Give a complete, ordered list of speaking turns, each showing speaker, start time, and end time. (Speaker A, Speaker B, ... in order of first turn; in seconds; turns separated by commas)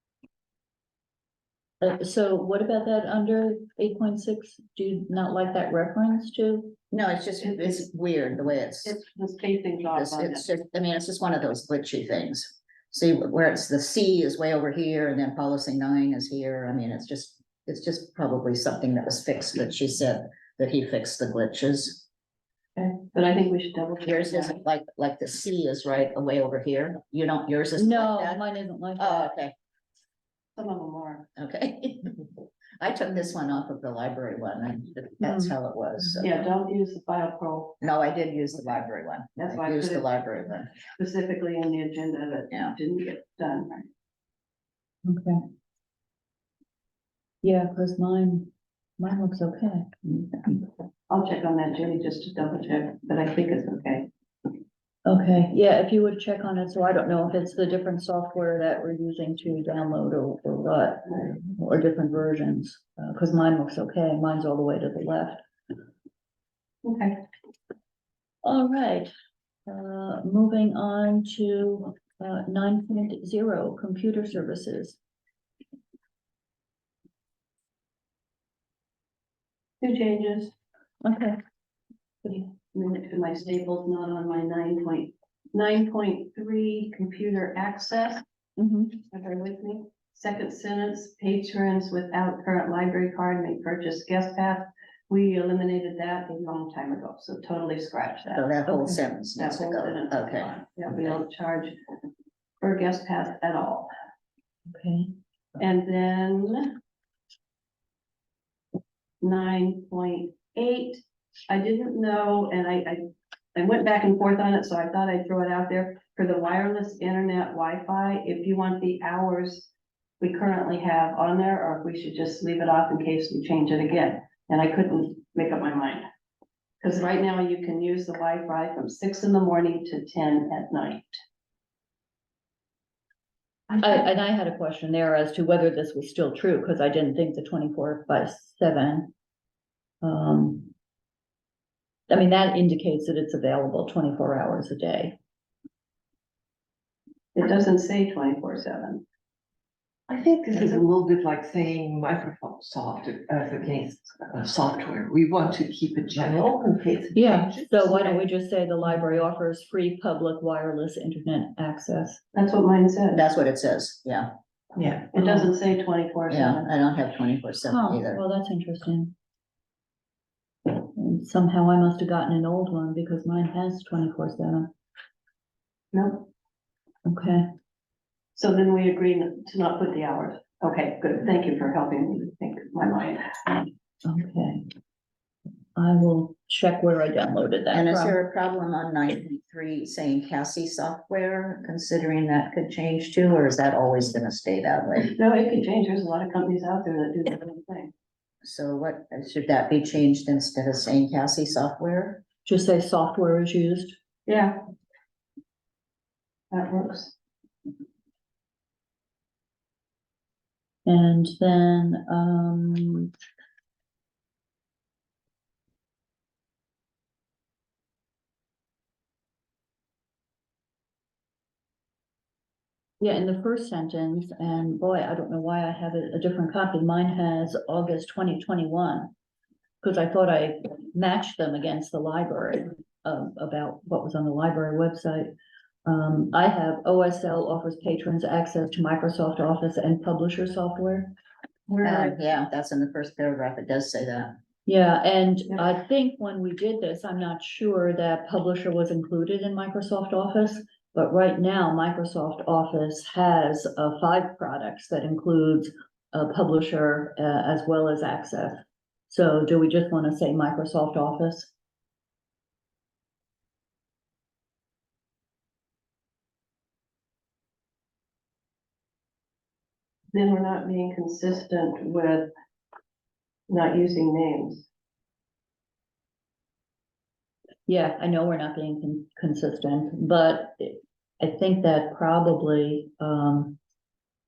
Speaker A: 1.8-6.8, Speaker B: 6.9-9.0, Speaker C: 7.4-7.8, Speaker C: 8.8-10.5, Speaker B: 9.9-22.1, Speaker C: 22.8-24.6, Speaker B: 24.0-28.4, Speaker A: 27.8-29.3, Speaker B: 29.0-29.5, Speaker C: 30.5-31.3, Speaker B: 31.4-32.3, Speaker B: 32.8-36.3, Speaker A: 35.2-36.2, Speaker C: 36.2-37.8, Speaker B: 37.8-40.7, Speaker C: 39.4-40.2, Speaker C: 40.7-43.9, Speaker A: 45.0-45.4, Speaker A: 47.4-50.6, Speaker C: 51.1-54.1, Speaker A: 55.0-65.4, Speaker C: 66.8-67.2, Speaker A: 68.4-69.1, Speaker A: 69.7-75.0, Speaker C: 79.8-80.5, Speaker A: 81.0-81.4, Speaker C: 82.2-88.2, Speaker A: 88.6-89.0, Speaker C: 89.1-98.5, Speaker B: 98.3-100.5, Speaker A: 98.7-99.0, Speaker C: 99.3-101.7, Speaker C: 102.6-103.9, Speaker A: 104.7-105.1, Speaker C: 105.6-106.7, Speaker C: 109.2-113.0, Speaker C: 113.5-119.7, Speaker C: 120.2-126.0, Speaker C: 126.8-131.2, Speaker A: 133.8-139.1, Speaker A: 140.0-140.7, Speaker A: 142.1-145.2, Speaker C: 147.3-149.0, Speaker D: 150.1-158.2, Speaker A: 157.1-162.2, Speaker C: 162.3-163.2, Speaker B: 163.1-164.3, Speaker C: 165.0-166.7, Speaker A: 165.1-165.5, Speaker B: 166.3-168.2, Speaker A: 167.7-169.1, Speaker A: 170.7-174.7, Speaker C: 175.9-176.3, Speaker A: 177.0-177.5, Speaker C: 178.3-183.7, Speaker A: 184.0-184.7, Speaker A: 185.8-188.2, Speaker B: 187.7-195.1, Speaker C: 195.1-197.9, Speaker B: 198.4-202.2, Speaker A: 202.4-203.9, Speaker C: 204.2-204.6, Speaker C: 206.5-207.1, Speaker A: 210.8-213.1, Speaker A: 223.0-229.1, Speaker A: 229.8-235.3, Speaker A: 235.8-241.1, Speaker C: 241.7-242.2, Speaker B: 241.8-244.4, Speaker A: 244.7-261.5, Speaker C: 270.1-272.3, Speaker C: 273.5-274.6, Speaker A: 277.7-283.6